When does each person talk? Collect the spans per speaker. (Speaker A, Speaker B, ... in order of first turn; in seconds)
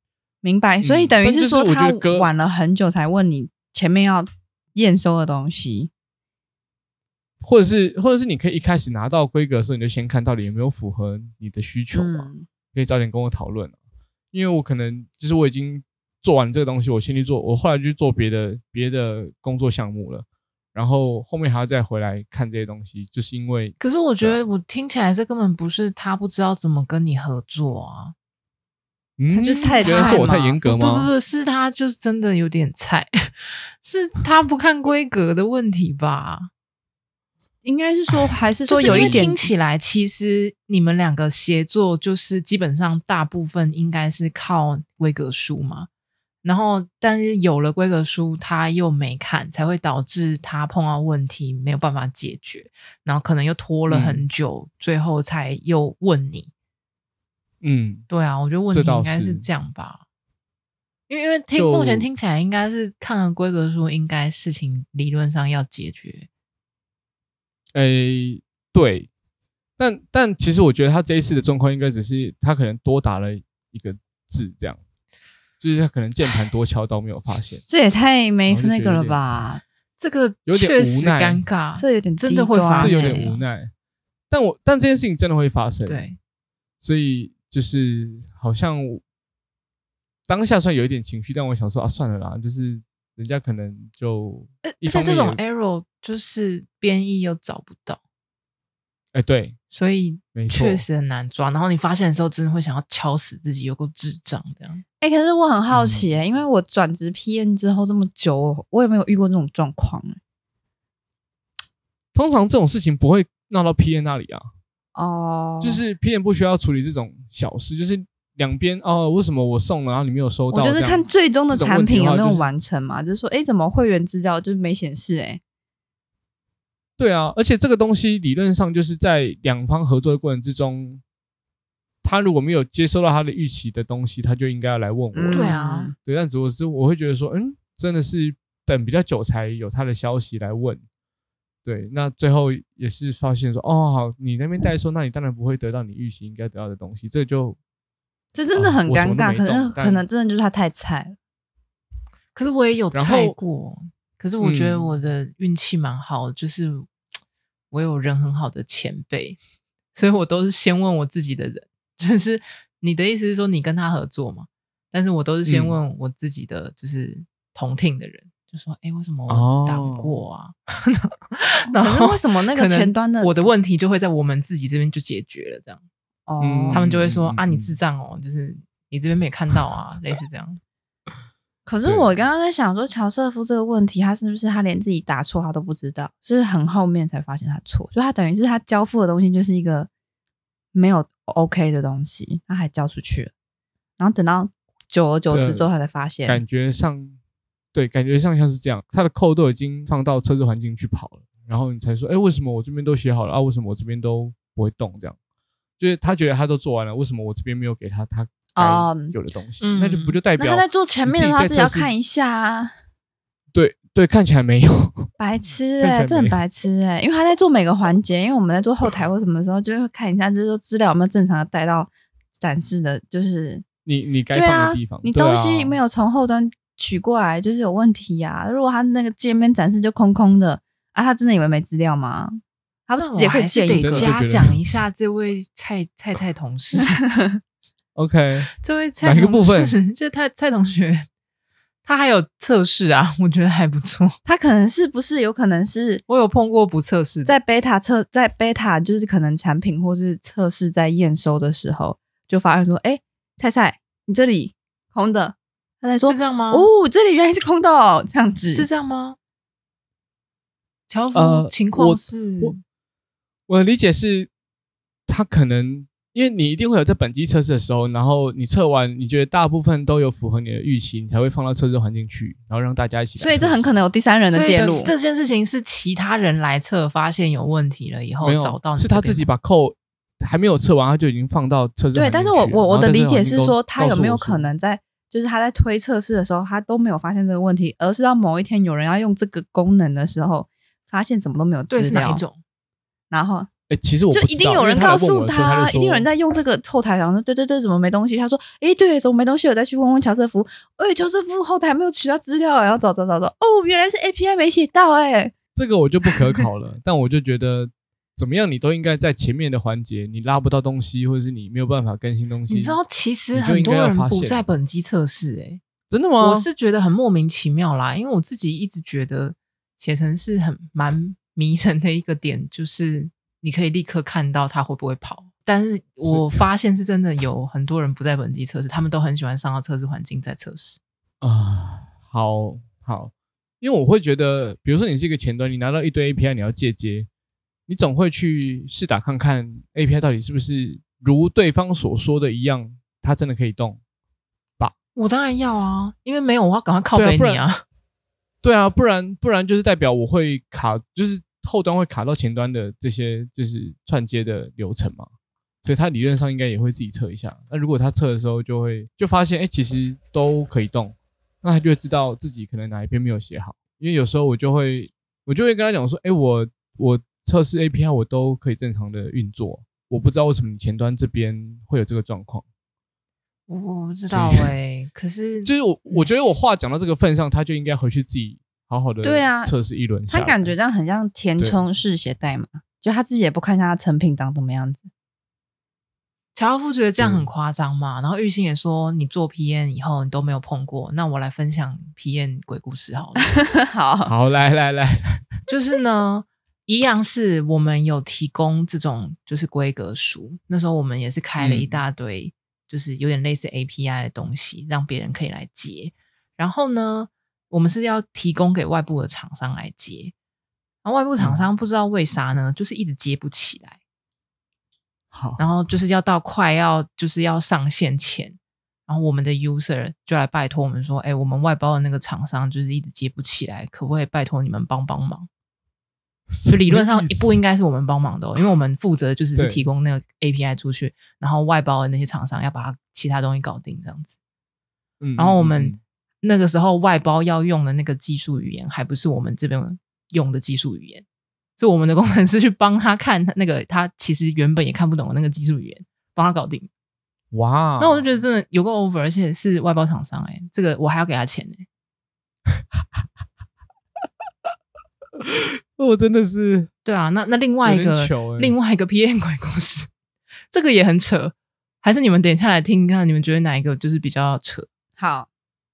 Speaker A: 0.4-5.9, 11.9-12.5, 29.3-30.6, 37.6-39.5, 77.7-79.6, 81.8-83.4, 105.0-110.2, 114.9-115.8, 120.5-125.4, 135.1-135.9, 148.3-151.2, 171.7-173.5, 176.3-176.8, 181.7-189.9, 190.7-193.3, 194.0-196.4, 208.6-209.2, 210.4-212.7, 215.2-223.6, 224.3-234.1, 236.9-237.4, 244.2-246.0, 247.3-258.7, 273.2-274.9, 281.9-292.2, 293.1-293.5, 294.1-305.3, 379.0-379.5, 380.1-384.9, 393.4-394.1, 465.0-465.3
Speaker B: 0.8-2.3, 7.4-13.8, 14.3-24.4, 29.2-31.1, 38.9-39.3, 53.9-54.2, 57.6-58.1, 58.7-59.5, 61.5-62.1, 67.7-69.1, 69.8-74.8, 75.6-77.6, 78.5-79.2, 80.5-81.4, 82.8-83.7, 84.3-86.1, 86.8-89.0, 90.3-95.4, 99.1-99.6, 100.3-100.8, 105.7-106.1, 112.1-114.5, 115.6-122.5, 127.0-131.0, 132.0-140.8, 141.7-147.6, 148.6-150.1, 152.9-153.3, 154.4-154.9, 165.4-165.8, 169.3-170.1, 176.4-177.8, 181.8-182.2, 195.3-195.7, 196.3-197.2, 197.7-205.2, 205.8-211.9, 213.5-215.1, 215.8-216.4, 223.8-225.8, 233.8-234.6, 237.9-238.5, 239.0-239.7, 261.1-262.6, 263.5-264.3, 265.1-273.8, 278.2-284.5, 293.7-296.1, 305.6-312.8, 313.3-314.5, 315.9-316.5, 326.0-326.4, 331.2-337.1, 337.7-343.8, 346.9-347.4, 348.4-355.1, 355.6-372.4, 374.1-374.5, 375.4-380.5, 387.0-387.3, 394.1-395.3, 401.4-401.8, 411.2-411.4, 415.1-415.4, 426.3-427.4, 429.4-429.6, 435.0-435.8, 447.3-448.1, 452.6-453.0, 455.2-456.7, 457.6-458.6
Speaker C: 23.8-28.1, 29.4-36.5, 38.7-45.9, 46.4-56.5, 58.1-60.0, 61.1-66.3, 80.0-83.3, 85.9-86.2, 94.6-98.0, 99.7-104.8, 135.3-135.9, 152.3-156.9, 157.7-159.4, 159.9-175.8, 176.7-180.6, 209.6-210.2, 233.0-237.0, 238.6-241.1, 241.8-244.2, 246.1-247.3, 256.0-256.7, 258.5-259.2, 260.9-262.6, 274.3-279.3, 291.7-292.4, 312.5-315.6, 316.2-330.8, 344.9-347.6, 373.5-376.1, 386.3-393.3, 395.5-410.1, 410.8-413.8, 415.4-425.3, 426.5-434.2, 435.2-441.1, 441.6-446.7, 447.8-451.7, 456.8-459.9, 460.5-464.7